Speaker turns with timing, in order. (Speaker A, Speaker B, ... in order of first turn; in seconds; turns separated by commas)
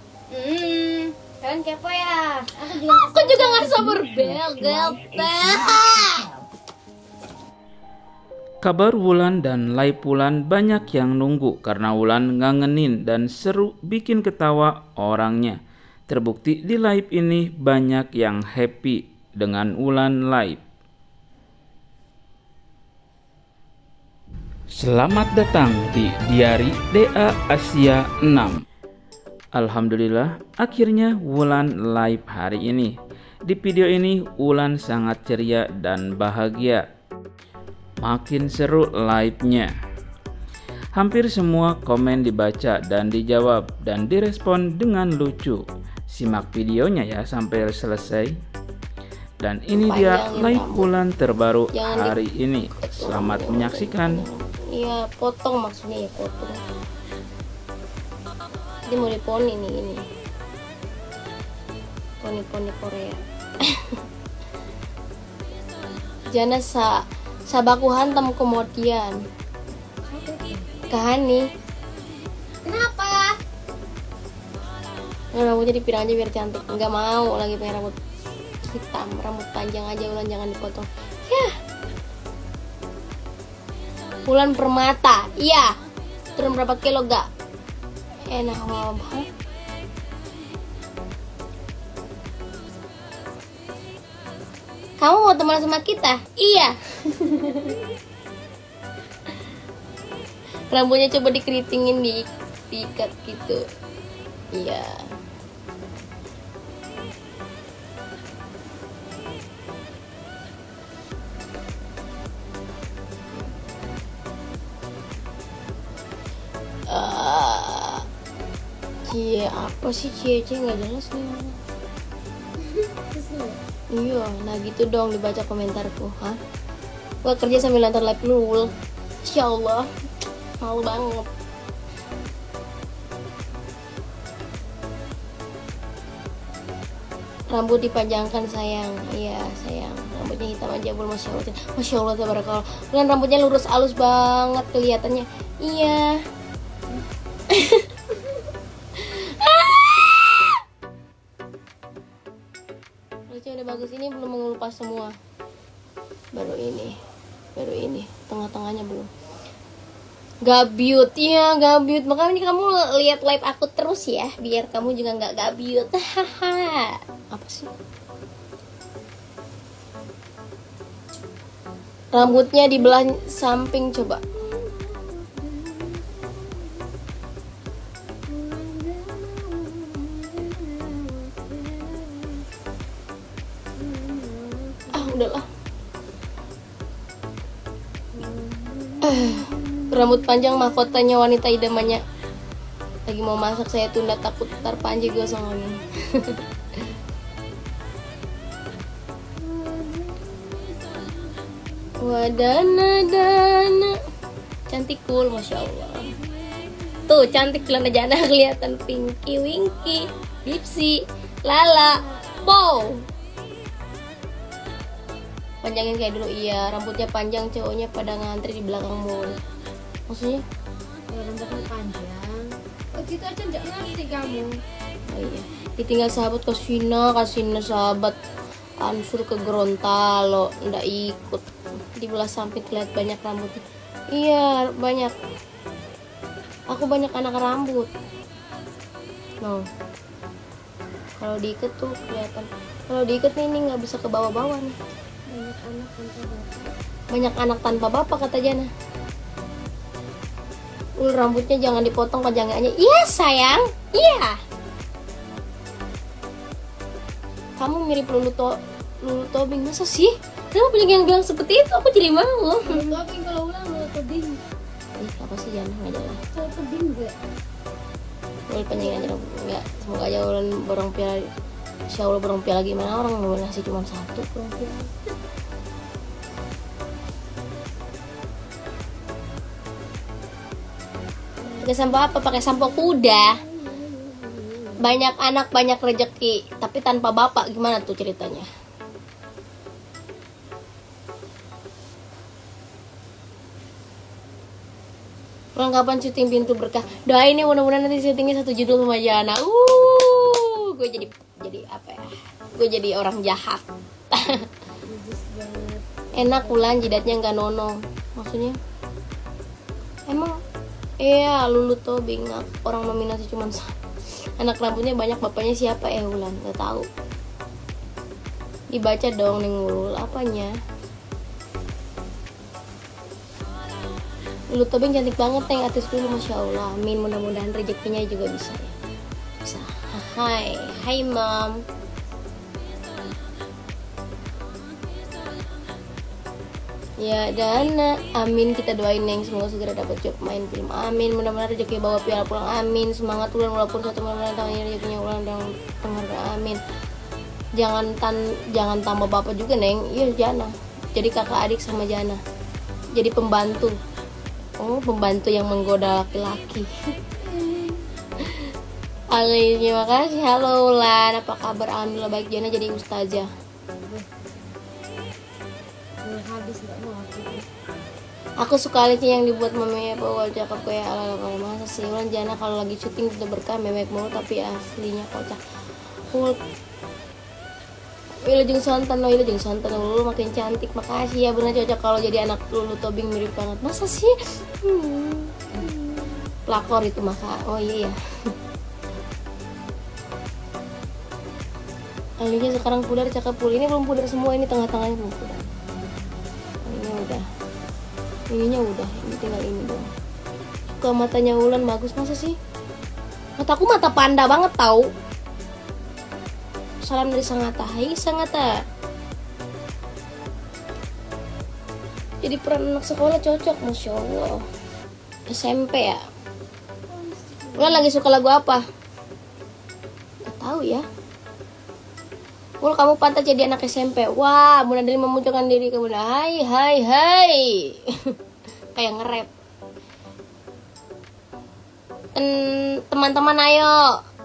Speaker A: 0.3-4.1, Speaker B: 2.7-6.3, Speaker C: 8.6-15.6, Speaker C: 16.1-20.6, Speaker C: 24.7-28.6, Speaker C: 29.6-32.9, Speaker C: 33.5-36.8, Speaker C: 38.0-39.7, Speaker C: 41.0-48.3, Speaker C: 49.4-54.2, Speaker B: 49.8-50.9, Speaker B: 51.7-52.2, Speaker B: 52.7-56.6, Speaker B: 58.9-60.0, Speaker B: 62.2-63.2, Speaker B: 66.3-66.9, Speaker B: 67.5-69.2, Speaker A: 70.1-70.8, Speaker B: 70.9-71.5, Speaker A: 72.7-73.4, Speaker B: 75.3-78.0, Speaker B: 78.7-81.5, Speaker B: 84.3-85.7, Speaker B: 86.4-87.3, Speaker B: 88.3-89.3, Speaker B: 95.0-97.8, Speaker B: 100.7-103.6, Speaker B: 104.5-104.9, Speaker B: 116.9-118.0, Speaker B: 119.1-121.6, Speaker A: 122.6-123.6, Speaker B: 123.9-126.4, Speaker B: 127.2-128.7, Speaker B: 129.2-129.9, Speaker B: 130.6-131.3, Speaker B: 137.5-146.2, Speaker B: 147.5-147.8, Speaker B: 149.0-150.6, Speaker B: 153.3-155.2, Speaker B: 156.3-156.9, Speaker B: 157.6-159.1, Speaker B: 160.4-167.7, Speaker B: 172.1-174.2, Speaker A: 172.2-172.8, Speaker A: 174.4-176.9, Speaker A: 178.3-182.5, Speaker A: 183.8-185.2, Speaker B: 184.9-185.5, Speaker A: 188.1-191.0, Speaker B: 189.0-192.0, Speaker B: 193.1-196.4, Speaker A: 199.4-201.6, Speaker B: 202.0-203.9, Speaker B: 204.7-206.1, Speaker B: 207.1-213.0, Speaker A: 211.8-212.2, Speaker B: 215.6-219.4, Speaker B: 220.1-220.4, Speaker A: 221.1-224.6, Speaker B: 225.1-228.2, Speaker B: 228.8-231.4, Speaker B: 232.0-233.6, Speaker B: 234.2-235.1, Speaker B: 236.7-237.9, Speaker B: 241.2-244.8, Speaker A: 245.3-246.7, Speaker B: 247.1-248.7, Speaker B: 251.0-254.4, Speaker B: 257.6-262.9, Speaker A: 262.6-264.4, Speaker B: 265.0-266.2, Speaker A: 266.3-267.2, Speaker B: 268.5-271.2, Speaker A: 268.6-269.1, Speaker B: 271.9-274.3, Speaker A: 274.4-274.9, Speaker A: 281.4-285.0, Speaker B: 281.6-283.4, Speaker B: 284.8-288.5, Speaker B: 295.6-304.5, Speaker A: 304.9-306.8, Speaker B: 306.1-308.6, Speaker B: 311.0-313.7, Speaker B: 314.4-316.9, Speaker B: 318.7-320.5, Speaker B: 324.5-328.7, Speaker B: 329.4-331.6, Speaker B: 337.0-346.6, Speaker B: 347.6-352.2, Speaker B: 353.0-353.8, Speaker B: 354.6-356.7, Speaker A: 357.2-357.9, Speaker B: 359.1-363.3, Speaker A: 366.0-367.5, Speaker B: 368.4-375.4, Speaker B: 378.2-385.7, Speaker B: 386.5-388.0, Speaker B: 392.2-395.4, Speaker B: 396.7-397.2, Speaker B: 398.3-399.9, Speaker B: 400.8-402.4, Speaker B: 403.4-404.9, Speaker B: 406.8-408.5, Speaker B: 412.2-414.4, Speaker B: 415.3-416.0, Speaker A: 416.9-417.8, Speaker B: 417.6-418.6, Speaker B: 420.3-420.9, Speaker B: 422.6-427.7, Speaker B: 428.8-429.3, Speaker B: 432.9-433.8